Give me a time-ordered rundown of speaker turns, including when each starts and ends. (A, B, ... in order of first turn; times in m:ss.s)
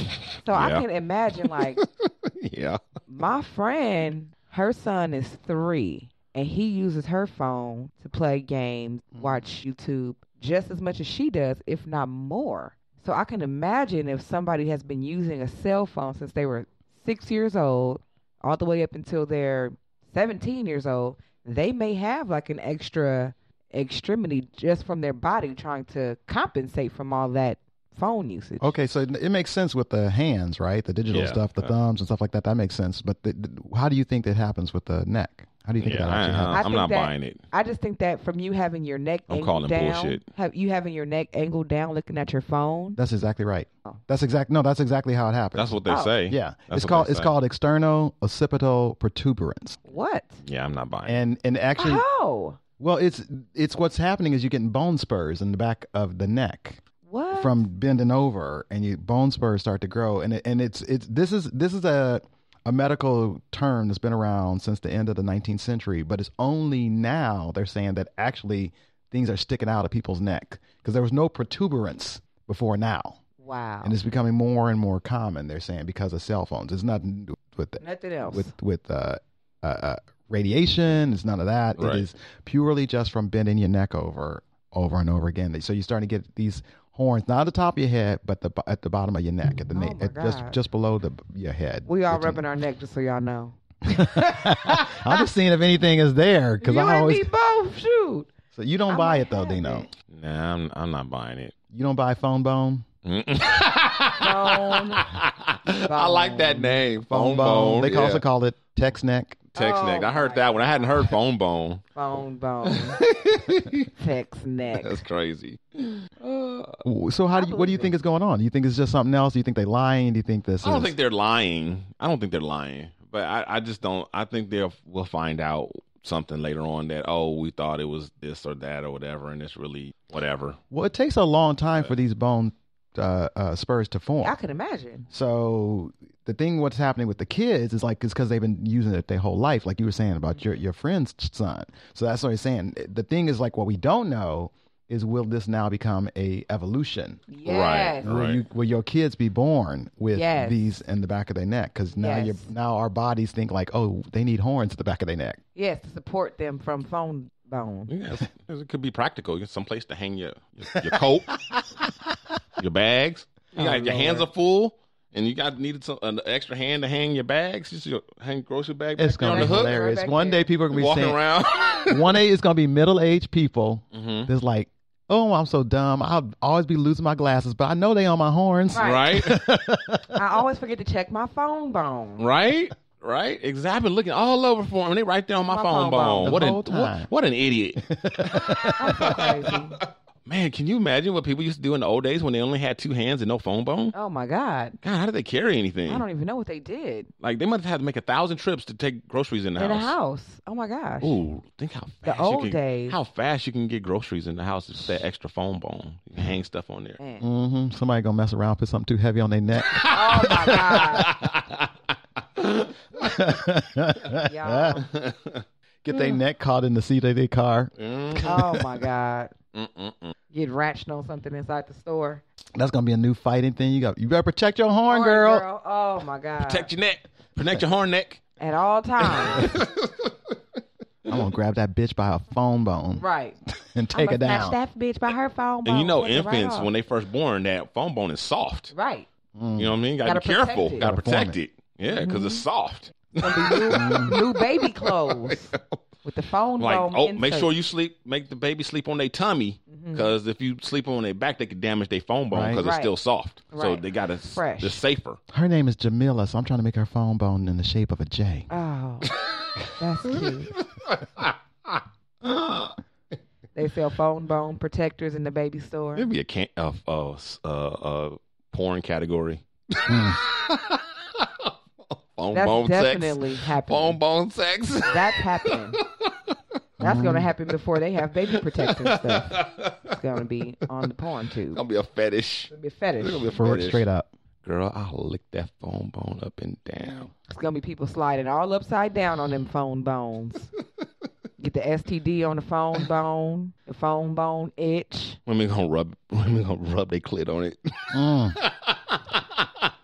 0:00.4-0:01.8 A
0:00.5-0:00.8 B
0:01.4-0:02.8 B
0:03.1-0:28.7 A
0:09.1-0:09.4 C
0:28.6-0:36.6 C
0:31.1-0:31.7 B
0:35.8-0:37.4 B
0:36.5-0:43.0 A
0:39.3-0:40.2 B
0:43.0-0:49.8 C
0:45.5-0:47.3 B
0:45.9-0:46.1 A
0:49.9-0:50.4 A
0:50.4-0:51.2 B
0:51.0-0:52.0 C
0:51.8-0:52.6 A
0:52.8-0:56.8 C
0:57.0-0:57.6 A
0:57.3-1:13.2 C
1:13.4-1:14.0 A
1:13.8-1:32.4 C
1:17.8-1:18.5 A
1:21.8-1:22.0 B
1:29.7-1:30.6 A
1:31.8-1:35.2 A
1:33.8-1:37.3 C
1:36.6-1:38.3 A
1:38.5-1:39.9 C
1:38.9-1:39.9 A
1:40.1-1:41.5 B
1:41.7-1:42.8 C
1:43.0-1:48.2 B
1:44.2-1:45.1 A
1:45.8-1:46.7 A
1:47.1-1:49.4 C
1:49.5-1:51.0 A
1:49.5-1:51.8 B
1:51.9-1:53.0 A
1:52.7-1:53.9 B
1:54.0-1:55.0 A
1:54.8-1:56.8 B
1:56.8-2:00.9 C
1:57.3-1:57.9 A
2:00.6-2:10.6 B
2:10.7-2:14.3 C
2:14.2-2:15.0 A
2:15.1-2:27.2 C
2:27.3-2:28.1 A
2:27.4-2:28.4 B
2:28.0-2:35.4 C
2:30.1-2:30.6 A
2:32.0-2:32.5 A
2:35.6-2:37.9 A
2:37.9-2:41.4 B
2:40.8-2:41.6 C
2:42.6-2:49.7 B
2:43.5-2:44.3 A
2:49.0-2:51.2 C
2:49.3-2:50.5 A
2:50.7-2:52.1 B
2:51.9-3:00.2 C
2:53.9-2:54.3 B
2:58.7-2:59.0 A
2:58.7-2:59.4 B
3:00.1-3:02.2 A
3:02.2-3:09.3 B
3:05.5-3:06.4 A
3:06.2-3:07.1 C
3:07.8-3:09.2 C
3:08.8-3:09.8 A
3:10.2-3:13.9 B
3:13.9-3:14.8 A
3:14.8-3:16.0 B
3:15.9-3:17.1 A
3:17.2-3:19.9 B
3:19.6-3:21.2 A
3:21.0-3:27.0 B
3:22.0-3:22.9 A
3:27.0-3:27.2 A
3:27.2-3:29.9 C
3:29.7-3:31.7 B
3:29.9-3:31.1 A
3:32.4-3:33.1 B
3:33.0-3:34.8 C
3:34.2-3:34.8 A
3:34.8-3:35.4 B
3:35.8-3:38.5 C
3:37.8-3:38.3 B
3:38.2-3:39.3 A
3:39.5-3:40.1 B
3:40.3-3:42.2 A
3:42.6-3:45.4 C
3:44.9-3:46.7 A
3:46.4-3:48.2 B
3:48.4-3:49.5 A
3:49.1-3:50.1 B
3:51.0-3:54.6 C
3:53.0-3:53.4 A
3:53.9-3:56.7 A
3:55.6-3:58.7 B
3:58.7-3:59.1 A
3:59.3-3:59.8 C
3:59.6-4:05.8 B
4:00.0-4:00.8 A
4:00.8-4:01.4 C
4:01.9-4:02.4 A
4:03.2-4:05.5 A
4:03.7-4:04.2 C
4:06.0-4:07.5 A
4:06.6-4:15.2 B
4:09.7-4:10.1 A
4:12.3-4:12.6 C
4:12.6-4:12.9 A
4:13.5-4:14.8 A
4:15.3-4:18.5 C
4:18.5-4:19.1 A
4:19.8-4:20.5 A
4:20.6-4:22.7 B
4:23.5-4:26.0 A
4:25.9-4:31.5 B
4:29.9-4:30.2 C
4:32.1-4:36.3 B
4:32.3-4:34.0 A
4:34.8-4:35.8 A
4:36.8-4:37.3 C
4:36.8-4:41.6 A
4:38.6-4:39.9 B
4:41.5-4:43.8 B
4:42.5-4:43.3 A
4:43.3-4:44.1 C
4:44.4-4:47.1 B
4:47.3-4:50.5 A
4:51.4-4:55.2 A
4:55.3-4:59.5 B
4:57.9-4:58.4 C